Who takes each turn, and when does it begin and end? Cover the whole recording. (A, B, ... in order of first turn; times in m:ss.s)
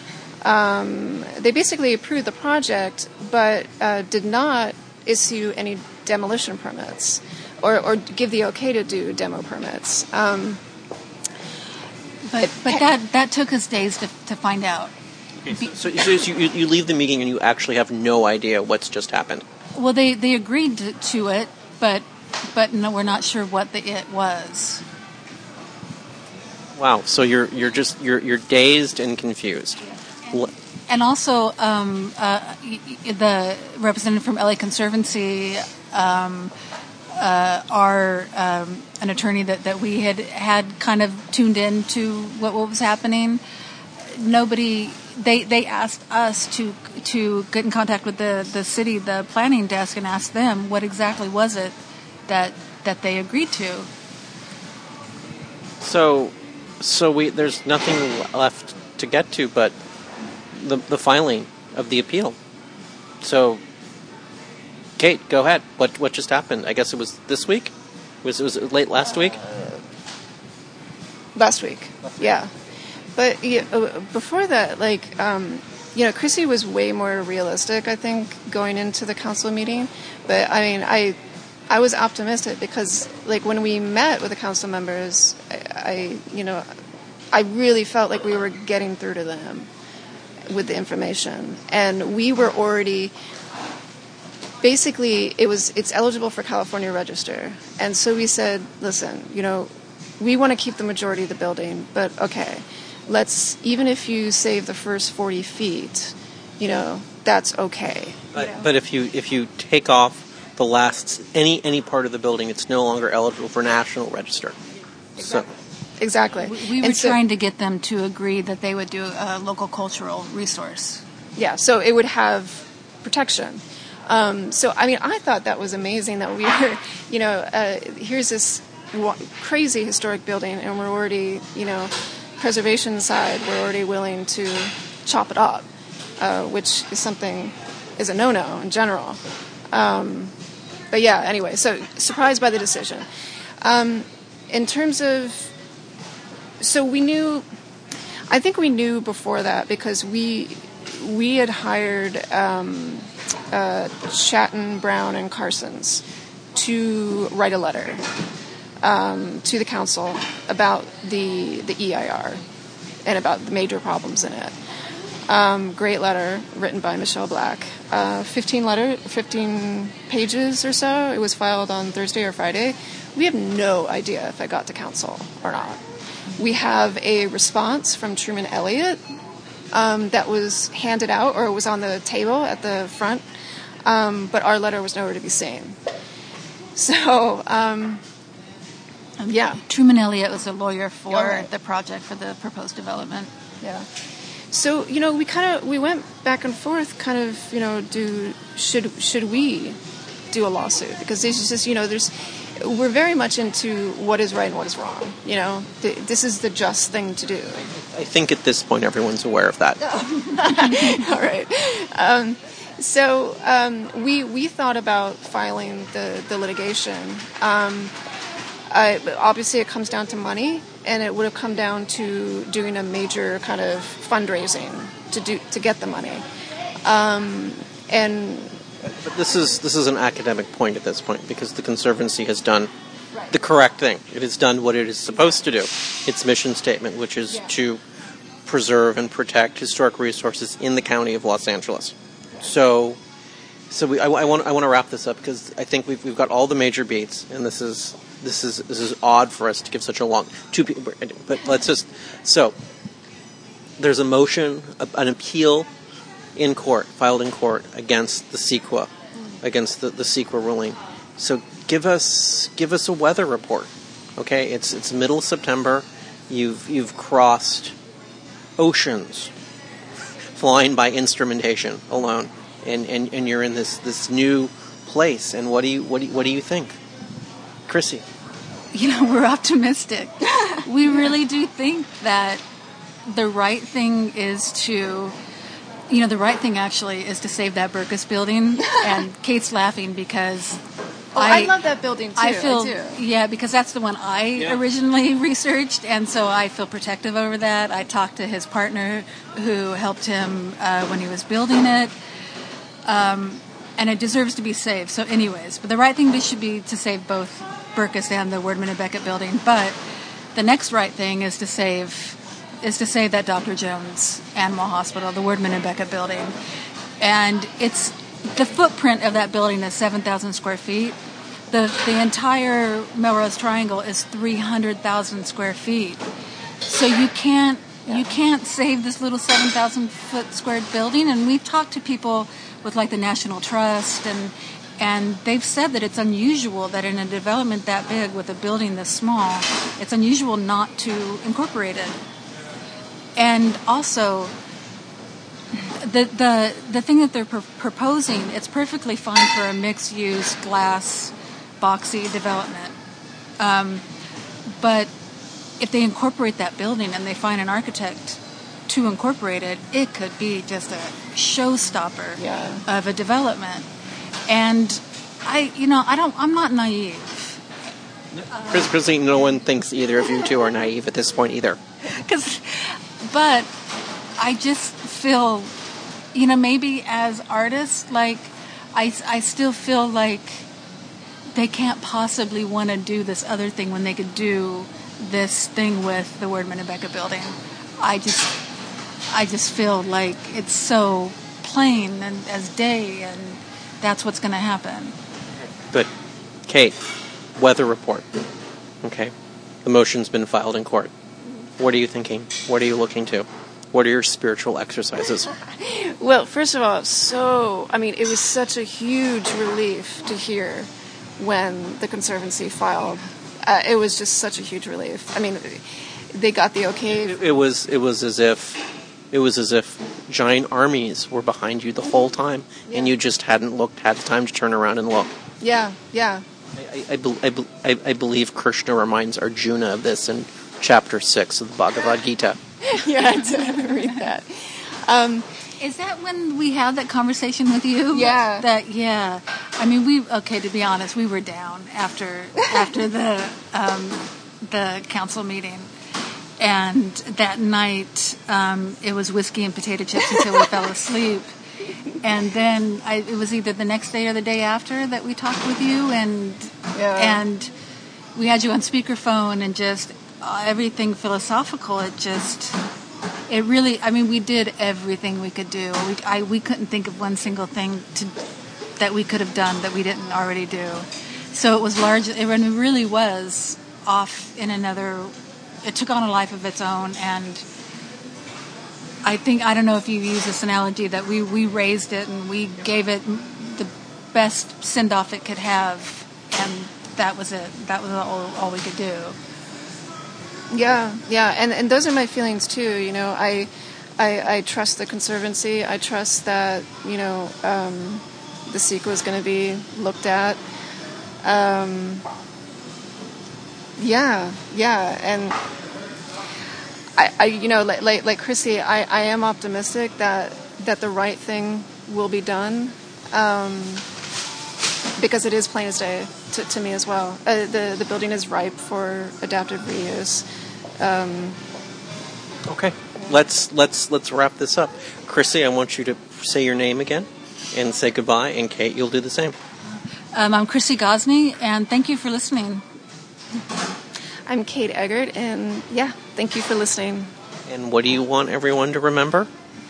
0:00.4-0:10.6 A
0:12.3-0:14.9 B
0:12.4-0:12.9 A
0:15.4-0:19.5 C
0:19.8-0:24.8 B
0:26.8-0:29.8 C
0:30.3-0:36.5 B
0:37.2-0:43.4 B
0:44.1-0:51.8 B
0:52.3-0:53.9 B
0:55.8-0:59.8 C
1:00.5-1:02.4 C
1:03.2-1:03.6 C
1:05.0-1:09.4 C
1:09.1-1:09.8 A
1:11.4-1:12.5 A
1:12.0-1:12.4 C
1:13.2-1:21.2 A
1:21.7-1:26.7 A
1:27.3-1:29.7 A
1:30.5-1:33.1 A
1:34.6-1:48.7 A
1:48.3-1:54.6 C
1:55.2-1:55.5 C
1:56.0-1:57.2 A
1:56.4-2:01.0 B
2:01.4-2:15.7 A
2:16.2-2:19.2 A
2:19.7-2:20.3 A
2:20.9-2:23.1 A
2:23.6-2:25.5 A
2:26.6-2:27.4 A
2:28.3-2:36.0 A
2:36.5-2:38.0 A
2:38.8-2:42.4 A
2:43.1-2:44.5 A
2:45.3-2:55.8 A
2:56.4-2:59.0 A
2:59.7-3:03.2 A
3:03.9-3:05.8 A
3:06.8-3:08.0 A
3:09.2-3:13.3 B
3:09.3-3:09.6 A
3:11.1-3:11.5 A
3:13.6-3:13.9 A
3:14.5-3:19.8 A
3:20.3-3:27.7 A
3:27.8-3:29.8 C
3:29.8-3:37.9 A
3:38.7-3:46.2 A
3:46.8-3:48.6 A
3:48.8-3:52.7 C
3:53.3-3:57.8 C
3:58.4-4:03.0 C
4:03.7-4:12.6 C
4:13.8-4:15.7 C
4:16.4-4:18.9 C
4:19.4-4:27.8 C
4:28.6-4:29.3 C
4:30.3-4:36.8 C
4:37.7-4:38.0 C
4:38.7-4:42.4 B
4:43.1-4:45.2 B
4:45.9-4:50.6 B
4:51.2-4:53.0 A
4:51.2-4:51.6 B
4:52.2-5:01.9 B
5:02.9-5:09.8 B
5:10.4-5:16.3 B
5:17.0-5:21.0 B
5:21.5-5:26.0 B
5:26.6-5:42.0 B
5:43.2-5:44.3 B
5:45.6-5:52.8 B
5:53.4-5:53.8 B
5:54.6-5:54.9 B
5:55.6-6:03.7 B
6:02.2-6:02.6 A
6:04.3-6:07.4 B
6:08.2-6:11.6 C
6:08.3-6:08.7 B
6:11.8-6:13.5 B
6:14.2-6:15.5 B
6:16.1-6:20.5 B
6:21.3-6:28.4 B
6:29.1-6:35.0 B
6:36.5-6:36.8 C
6:37.4-6:38.1 C
6:38.8-6:40.9 C
6:41.6-6:45.3 C
6:45.4-6:57.2 A
6:57.0-7:05.1 C
7:02.7-7:03.0 A
7:05.4-7:06.2 A
7:06.5-7:12.4 C
7:12.6-7:15.3 A
7:13.4-7:13.6 B
7:15.6-7:25.7 B
7:17.9-7:18.5 A
7:26.4-7:31.3 B
7:32.0-7:37.5 B
7:36.7-7:37.2 A
7:38.2-7:42.6 B
7:43.3-7:48.1 B
7:48.8-7:57.4 B
7:59.0-8:09.2 B
8:10.5-8:20.4 A
8:21.2-8:22.1 A
8:23.8-8:25.4 A
8:27.0-8:33.8 A
8:35.0-8:40.2 A
8:40.8-8:41.4 A
8:42.5-8:49.4 C
8:50.1-8:52.6 B
8:54.3-8:57.1 A
8:57.5-8:59.3 C